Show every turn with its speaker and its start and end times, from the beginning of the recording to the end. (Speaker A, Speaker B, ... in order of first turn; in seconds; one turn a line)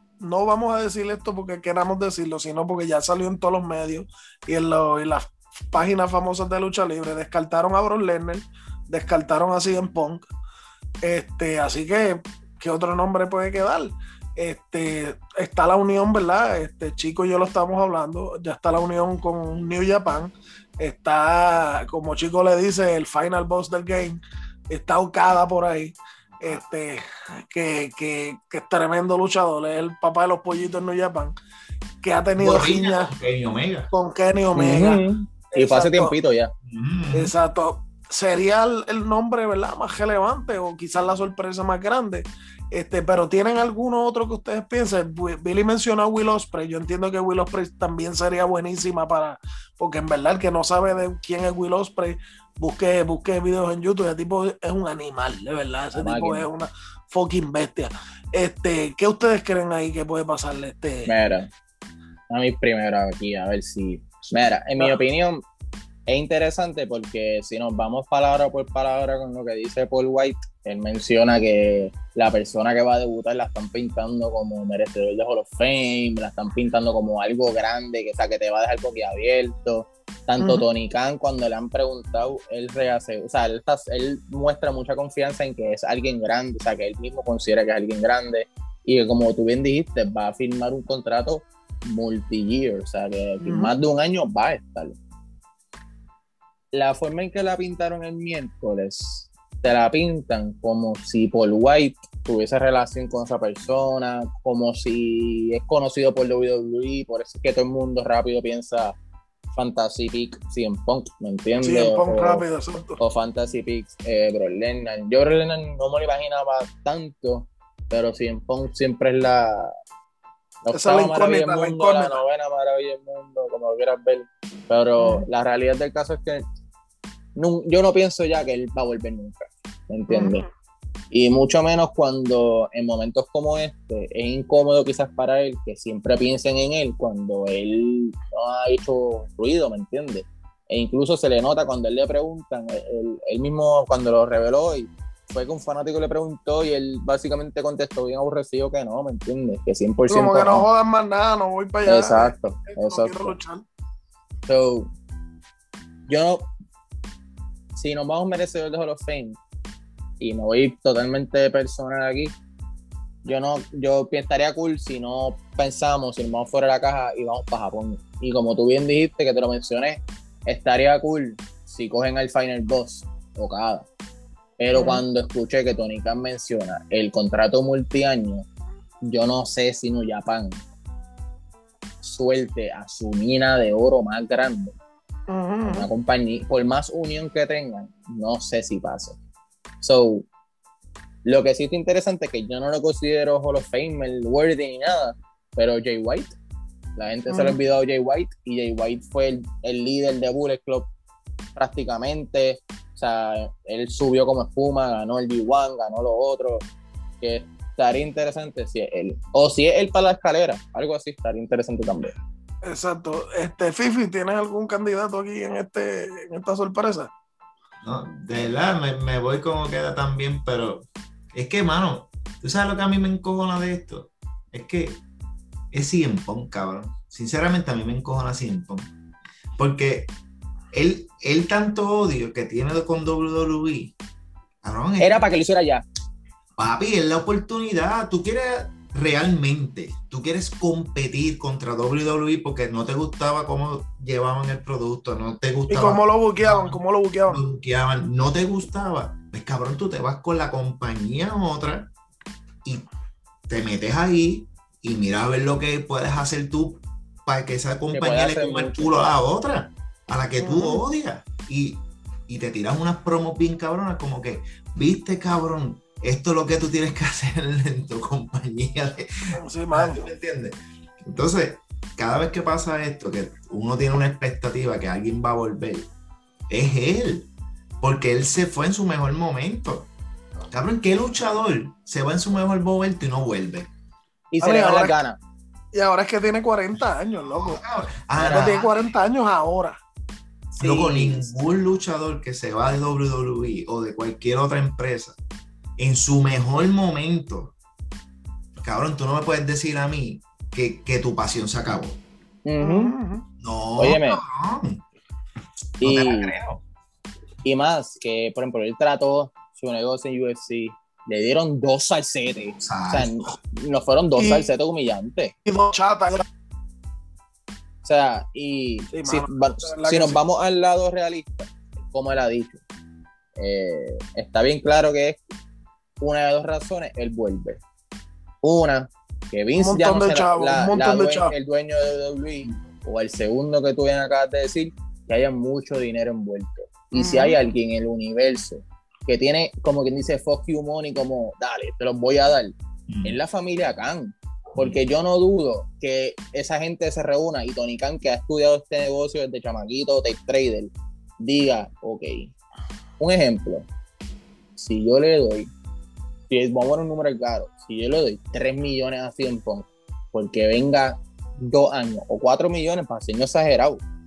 Speaker A: 0.2-10.2
Speaker A: 11.0-31.3
Speaker A: 32.0-33.1
Speaker B: 32.4-33.9
Speaker A: 33.9-36.1
Speaker C: 34.5-36.5
Speaker B: 36.7-37.3
Speaker A: 37.1-61.1
Speaker C: 55.9-56.5
Speaker C: 61.1-61.5
Speaker C: 62.3-65.4
Speaker C: 66.1-95.0
Speaker A: 80.4-80.7
Speaker A: 93.4-93.7
Speaker C: 96.7-109.0
Speaker C: 109.5-112.4
Speaker A: 111.6-113.0
Speaker C: 113.0-119.7
Speaker C: 120.7-126.4
Speaker A: 120.7-122.2
Speaker A: 125.0-125.2
Speaker C: 127.4-130.4
Speaker A: 130.1-130.4
Speaker C: 131.1-150.7
Speaker A: 150.1-153.6
Speaker C: 151.9-153.4
Speaker C: 154.5-154.9
Speaker C: 156.1-156.5
Speaker C: 157.8-159.4
Speaker C: 160.2-162.3
Speaker C: 163.2-173.9
Speaker C: 174.6-178.5
Speaker A: 174.7-175.0
Speaker C: 179.0-180.6
Speaker C: 182.0-184.8
Speaker A: 185.3-185.9
Speaker C: 185.7-189.2
Speaker C: 189.8-190.3
Speaker C: 191.2-196.4
Speaker C: 197.0-200.9
Speaker A: 197.3-197.6
Speaker C: 201.6-206.6
Speaker C: 207.2-212.1
Speaker A: 212.6-217.1
Speaker B: 217.8-225.0
Speaker B: 225.7-228.9
Speaker B: 229.6-230.1
Speaker B: 230.7-233.9
Speaker B: 234.6-235.2
Speaker C: 235.0-235.8
Speaker B: 236.6-251.9
Speaker A: 245.7-247.4
Speaker B: 253.5-275.9
Speaker C: 257.9-258.9
Speaker A: 260.4-260.8
Speaker A: 269.3-270.1
Speaker B: 276.5-277.3
Speaker B: 277.8-279.9
Speaker B: 280.5-283.7
Speaker C: 284.3-285.2
Speaker A: 284.4-285.0
Speaker A: 285.7-287.6
Speaker B: 287.2-288.8
Speaker C: 288.2-288.5
Speaker A: 288.2-289.8
Speaker C: 290.6-291.3
Speaker B: 290.6-295.2
Speaker B: 295.8-297.5
Speaker B: 298.6-302.0
Speaker C: 302.5-302.9
Speaker A: 302.6-303.2
Speaker B: 303.4-304.8
Speaker C: 303.8-304.2
Speaker C: 305.8-306.4
Speaker B: 305.8-306.6
Speaker C: 307.4-315.4
Speaker B: 312.6-313.2
Speaker A: 314.2-314.5
Speaker A: 315.4-316.2
Speaker C: 317.8-322.6
Speaker A: 318.9-320.2
Speaker C: 323.4-325.2
Speaker C: 326.0-327.6
Speaker C: 328.4-352.3
Speaker A: 329.6-331.3
Speaker A: 336.9-337.4
Speaker B: 342.9-343.2
Speaker C: 353.0-353.7
Speaker C: 354.6-355.5
Speaker C: 356.3-363.8